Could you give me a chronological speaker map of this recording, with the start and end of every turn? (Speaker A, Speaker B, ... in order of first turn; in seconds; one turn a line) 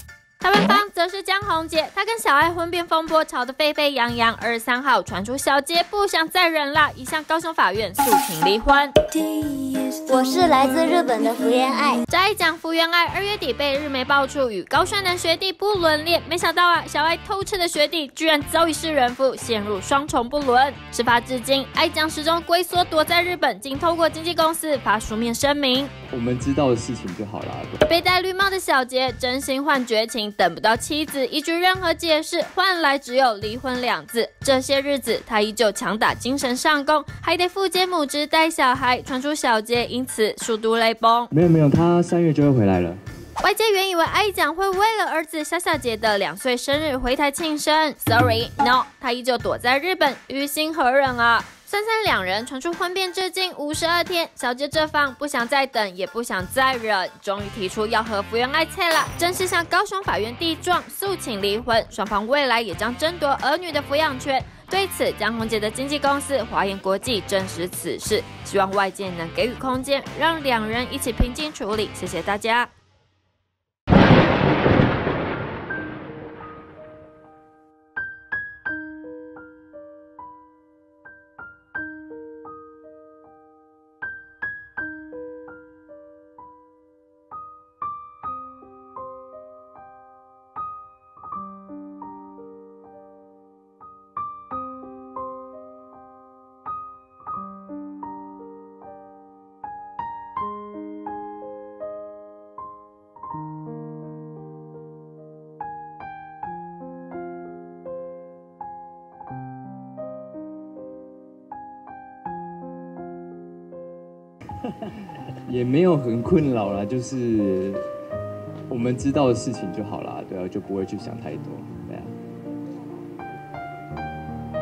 Speaker A: 0.4-8.9
Speaker B: 9.3-12.0
Speaker A: 12.1-25.9
Speaker C: 26.1-27.8
Speaker A: 27.8-41.3
Speaker C: 41.3-43.0
Speaker A: 43.4-72.7
Speaker C: 115.5-117.9
Speaker C: 118.7-122.1